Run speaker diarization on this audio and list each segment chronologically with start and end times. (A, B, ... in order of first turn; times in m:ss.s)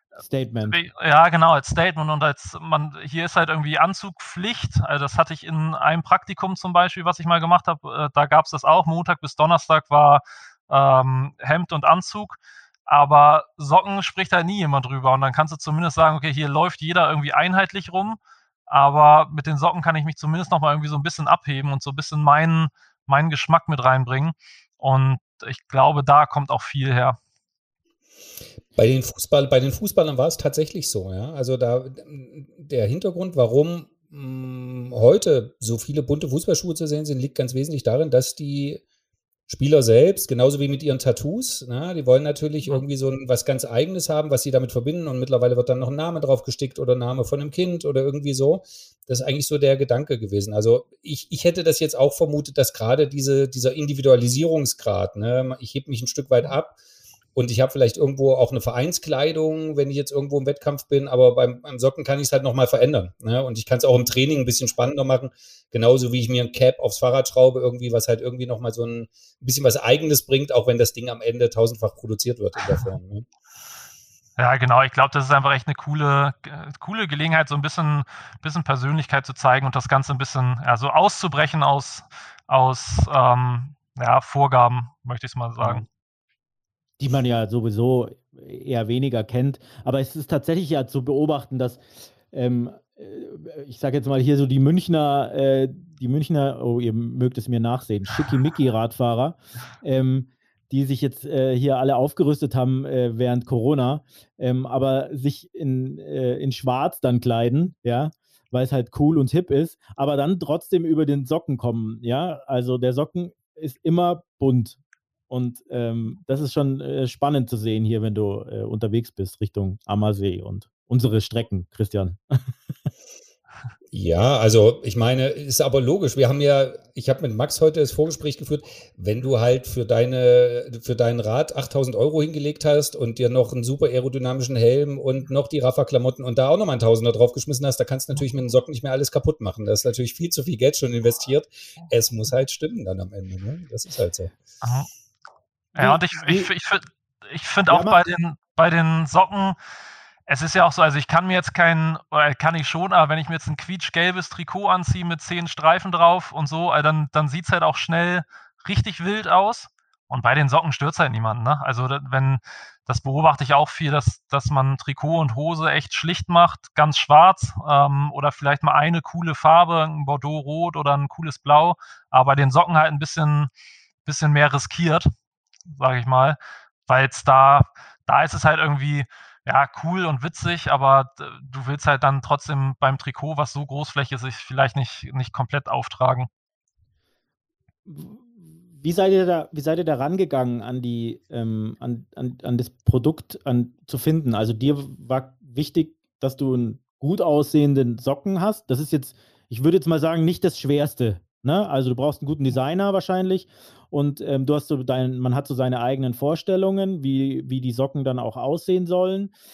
0:00.2-0:00.8 A
0:00.7-0:27.2 B
0:28.8-0:38.8 C
0:39.5-0:56.8 C
0:57.3-1:13.2 C
1:14.4-1:25.8 B
1:27.0-1:54.8 A
1:55.3-2:02.2 A
2:03.9-2:24.3 C
2:24.6-2:24.9 B
2:25.7-2:29.6 B
2:25.8-2:26.5 A
2:27.7-2:28.0 A
2:30.3-2:53.5 B
2:54.0-2:55.1 B
2:55.7-3:06.3 B
3:07.8-3:29.3 A